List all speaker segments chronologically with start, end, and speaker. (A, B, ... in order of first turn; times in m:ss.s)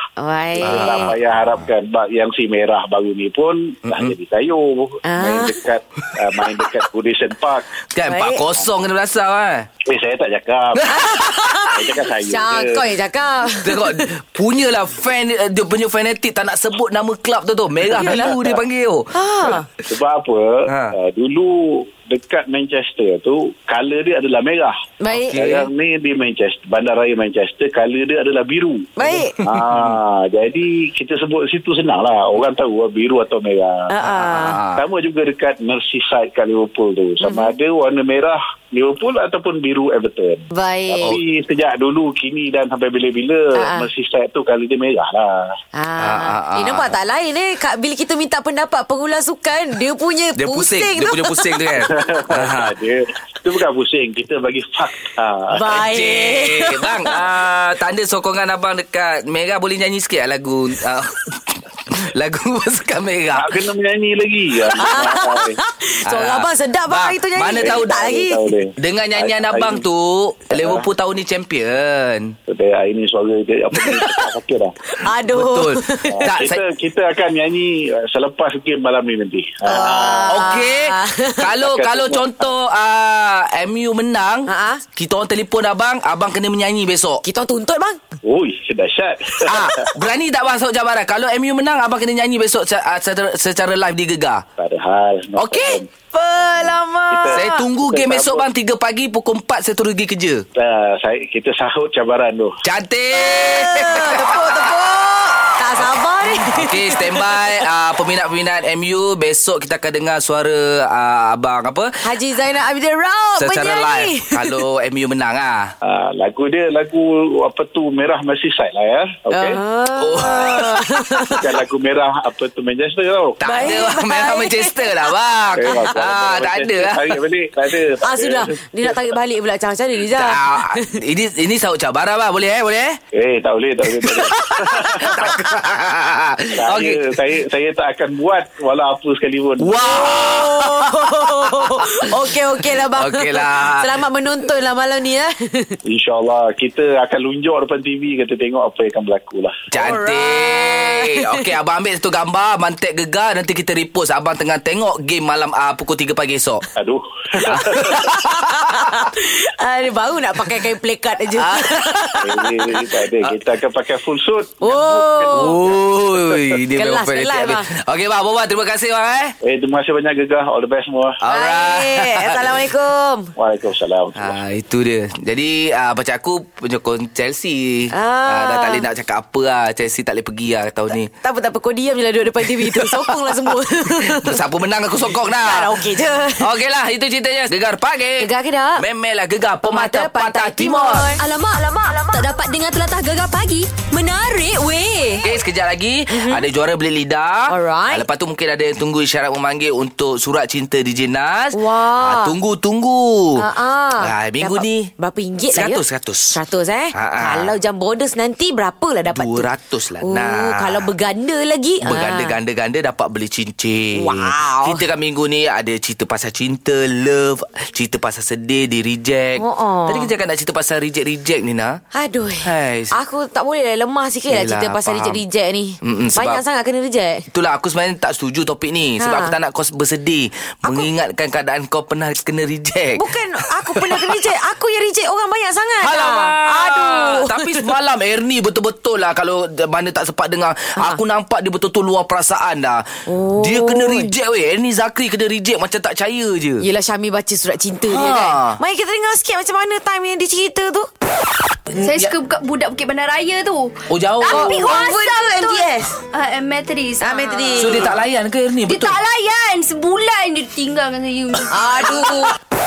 0:00.2-0:01.1 A
0:00.6-0:07.7 B
0:00.6-0:01.6 C
0:05.0-0:05.6 A
0:07.9-0:09.7 C
0:08.1-0:08.4 A
0:09.8-0:11.0 B
0:10.8-0:11.6 C
0:10.8-0:14.1 A
0:11.6-0:12.8 B
0:13.6-0:19.1 C
0:17.9-0:18.3 A
0:18.2-0:18.4 B
0:19.1-0:19.6 A
0:19.9-0:24.7 B
0:20.7-0:20.9 C
0:25.0-0:25.4 A
0:25.3-0:25.7 C
0:25.3-0:33.8 B
0:29.0-0:29.4 A
0:29.4-0:30.0 C
0:33.9-0:34.6 A
0:34.0-0:34.8 C
0:34.7-0:45.5 B
0:37.2-0:37.5 A
0:40.5-0:41.2 A
0:43.5-0:43.9 A
0:45.8-0:51.8 A
0:46.0-0:46.9 C
0:50.4-0:52.7 C
0:51.9-0:55.7 B
0:55.5-0:57.1 A
0:55.7-1:03.6 C
1:03.3-1:05.6 B
1:04.8-1:08.5 A
1:06.0-1:08.1 C
1:07.6-1:09.8 B
1:08.8-1:12.3 C
1:10.5-1:10.8 B
1:12.5-1:14.7 B
1:15.0-1:16.4 A
1:15.3-1:16.6 C
1:16.1-1:20.5 B
1:19.7-1:21.4 A
1:20.3-1:27.2 C
1:21.6-1:22.3 B
1:24.5-1:24.8 A
1:27.2-1:28.0 A
1:28.2-1:29.9 B
1:29.4-1:34.4 C
1:34.6-1:35.9 B
1:35.4-1:35.8 C
1:36.1-1:37.6 A
1:37.1-1:38.4 B
1:37.3-1:40.4 C
1:40.6-1:42.5 B
1:42.6-1:44.7 C
1:43.2-1:47.4 A
1:45.7-1:51.9 C
1:52.0-1:54.6 A
1:53.4-1:55.7 C
1:55.8-1:59.6 B
1:59.3-2:01.4 A
2:00.0-2:01.3 C
2:01.3-2:03.6 B
2:03.4-2:07.2 C
2:03.4-2:05.1 A
2:05.5-2:09.0 B
2:08.0-2:11.0 A
2:10.0-2:13.0 C
2:13.1-2:15.4 B
2:14.0-2:17.2 C
2:14.7-2:15.3 A
2:16.6-2:19.9 B
2:19.6-2:23.9 C
2:19.8-2:25.8 A
2:25.8-2:29.6 B
2:29.7-2:36.6 C
2:29.8-2:31.4 A
2:36.8-2:38.0 B
2:37.4-2:39.0 C
2:38.4-2:42.4 A
2:41.4-2:42.4 C
2:42.2-2:45.7 B
2:44.6-2:45.6 A
2:45.3-2:49.3 C
2:46.8-2:47.6 A
2:49.4-2:51.2 B
2:51.2-2:52.5 C
2:51.3-2:53.3 A
2:53.4-2:54.4 B
2:54.2-3:01.1 C
2:57.9-2:58.8 A
3:01.2-3:04.4 A
3:02.5-3:05.8 C
3:05.4-3:06.5 A
3:06.4-3:11.1 C
3:08.2-3:08.8 A
3:09.6-3:11.2 A
3:11.2-3:15.2 D
3:15.2-3:23.4 C
3:16.1-3:16.4 A
3:17.5-3:18.0 A
3:21.5-3:22.3 A
3:23.4-3:29.5 A
3:24.0-3:24.9 C
3:25.5-3:26.4 C
3:26.9-3:27.5 C
3:29.1-3:30.9 C
3:30.0-3:32.4 A
3:31.8-3:41.8 C
3:33.9-3:34.8 A
3:39.4-3:40.1 A
3:41.9-3:47.2 A
3:42.4-3:42.9 C
3:44.3-3:45.2 C
3:45.8-3:46.4 C
3:47.3-3:54.3 C
3:49.0-3:49.3 A
3:53.0-3:57.7 A
3:55.8-4:02.9 C
4:03.1-4:04.1 A
4:03.4-4:06.6 C
4:06.6-4:10.9 A
4:07.9-4:08.6 C
4:11.7-4:12.1 C
4:11.8-4:17.9 E
4:13.9-4:14.7 C
4:14.3-4:15.9 A
4:17.0-4:17.9 A
4:17.6-4:18.9 C
4:18.7-4:22.3 E
4:21.5-4:22.3 A